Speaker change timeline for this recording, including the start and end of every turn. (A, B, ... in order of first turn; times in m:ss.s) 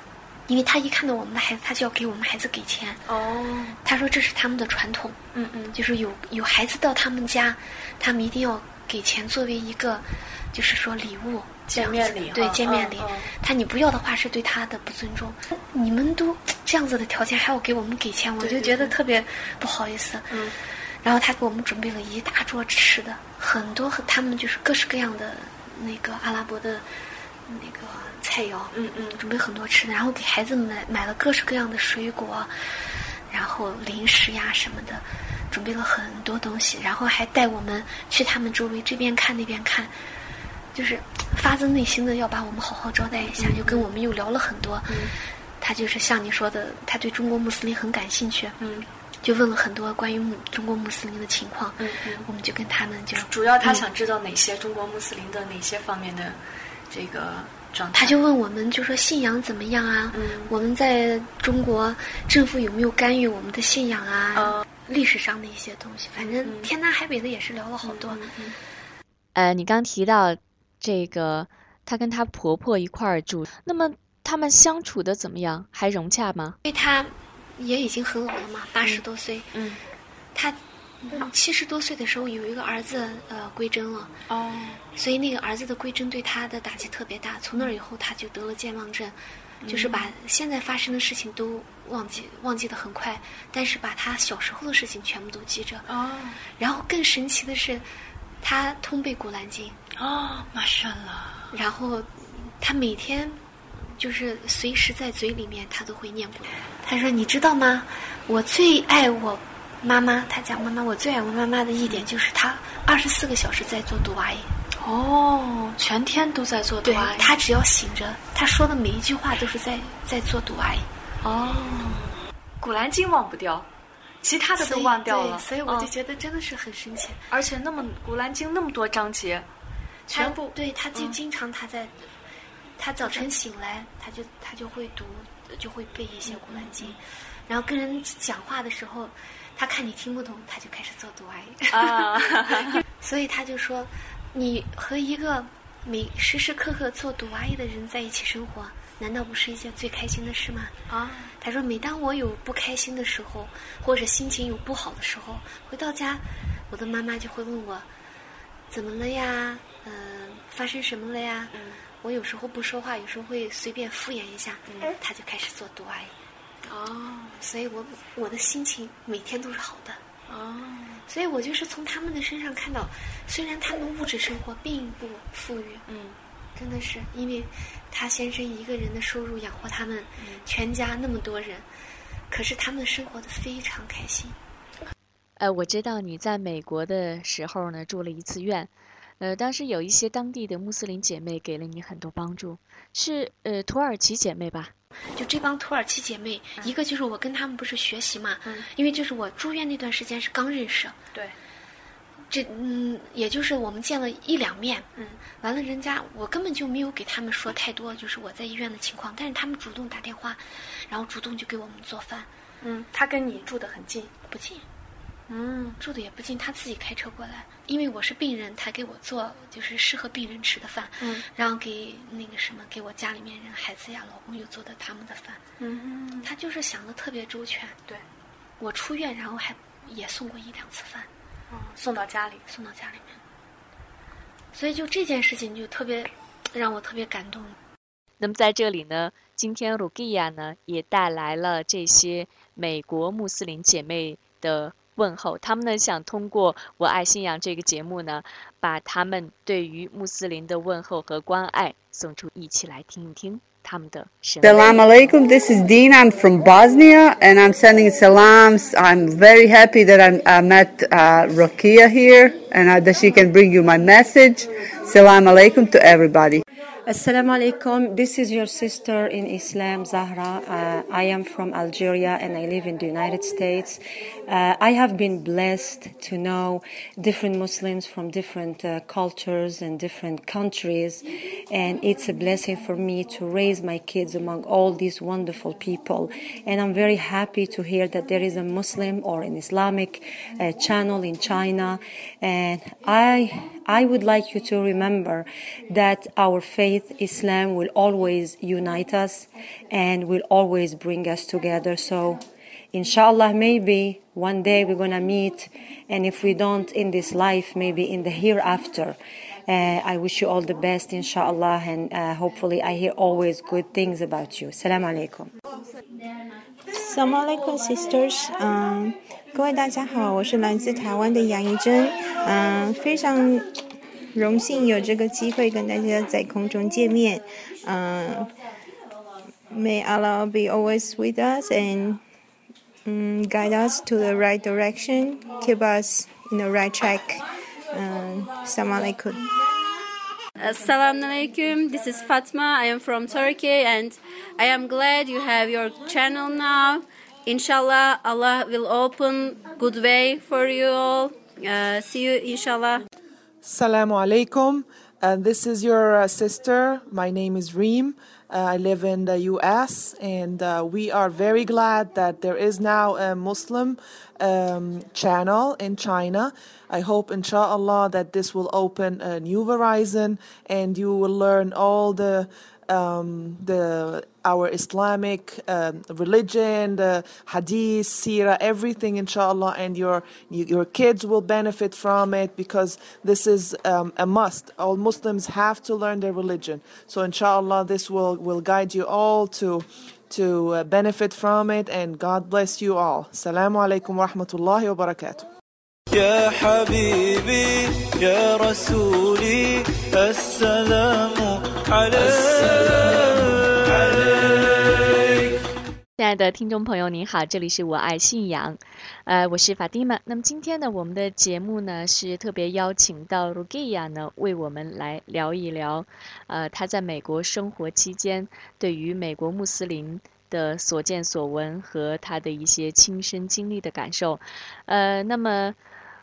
0:00.5-0:03.0 A
0:03.1-0:03.8 B
0:03.8-0:05.2 A
0:05.3-0:05.8 B
0:05.7-0:20.5 A
0:11.7-0:13.3 B
0:18.4-0:18.9 B
0:20.3-0:20.6 B
0:21.0-0:26.8 A
0:27.4-0:39.9 A
0:28.7-0:29.2 B
0:40.7-0:48.6 A
0:43.1-0:43.9 B
0:44.9-0:45.1 B
0:48.6-0:48.9 B
0:49.2-0:53.8 A
0:51.8-0:52.3 B
0:53.3-0:56.4 B
0:56.9-0:58.2 B
0:57.9-1:08.2 A
1:00.1-1:00.5 B
1:04.3-1:04.6 B
1:06.2-1:06.7 B
1:07.8-1:08.6 B
1:09.3-1:16.6 C
1:16.6-1:19.5 A
1:18.8-1:19.8 B
1:20.3-1:24.1 A
1:24.3-1:24.8 B
1:24.9-1:35.9 A
1:29.6-1:30.1 B
1:35.9-1:36.4 B
1:36.6-1:37.8 A
1:38.4-1:39.8 A
1:40.0-1:41.5 B
1:41.5-1:54.5 A
1:54.8-1:57.3 B
1:56.8-2:00.9 A
2:01.2-2:03.7 B
2:04.2-2:05.9 B
2:04.6-2:07.2 A
2:07.3-2:09.5 B
2:10.1-2:12.1 A
2:10.1-2:11.2 B
2:12.8-2:30.8 A
2:16.2-2:17.0 B
2:21.7-2:22.8 B
2:30.9-2:31.3 B
2:31.4-2:37.9 A
2:38.7-2:46.1 A
2:41.5-2:41.8 B
2:46.6-2:47.4 B
2:47.4-2:50.0 A
2:50.3-2:51.0 B
2:51.1-2:55.8 A
2:55.9-2:56.2 B
2:56.6-3:01.7 A
3:00.2-3:00.4 B
3:02.3-3:04.4 A
3:05.4-3:14.7 C
3:15.2-3:21.0 A
3:22.3-3:24.9 A
3:25.0-3:25.2 B
3:25.4-3:32.3 A
3:32.6-3:34.1 B
3:34.3-3:34.6 A
3:35.3-3:35.8 B
3:35.8-3:45.4 A
3:41.0-3:41.2 B
3:45.6-3:46.3 B
3:46.2-3:47.8 A
3:48.6-3:51.1 A
3:51.5-3:52.4 B
3:52.5-3:53.2 A
3:54.5-3:57.6 A
3:58.2-4:14.8 C
4:14.4-4:26.4 D
4:26.8-5:02.2 E
5:02.7-5:15.3 E
5:16.7-5:23.6 F
5:24.1-5:28.3 F
5:29.5-5:32.0 F
5:32.8-5:39.2 F
5:40.4-5:52.8 G
5:53.4-6:35.2 H
6:35.9-6:45.3 I
6:46.0-7:05.6 C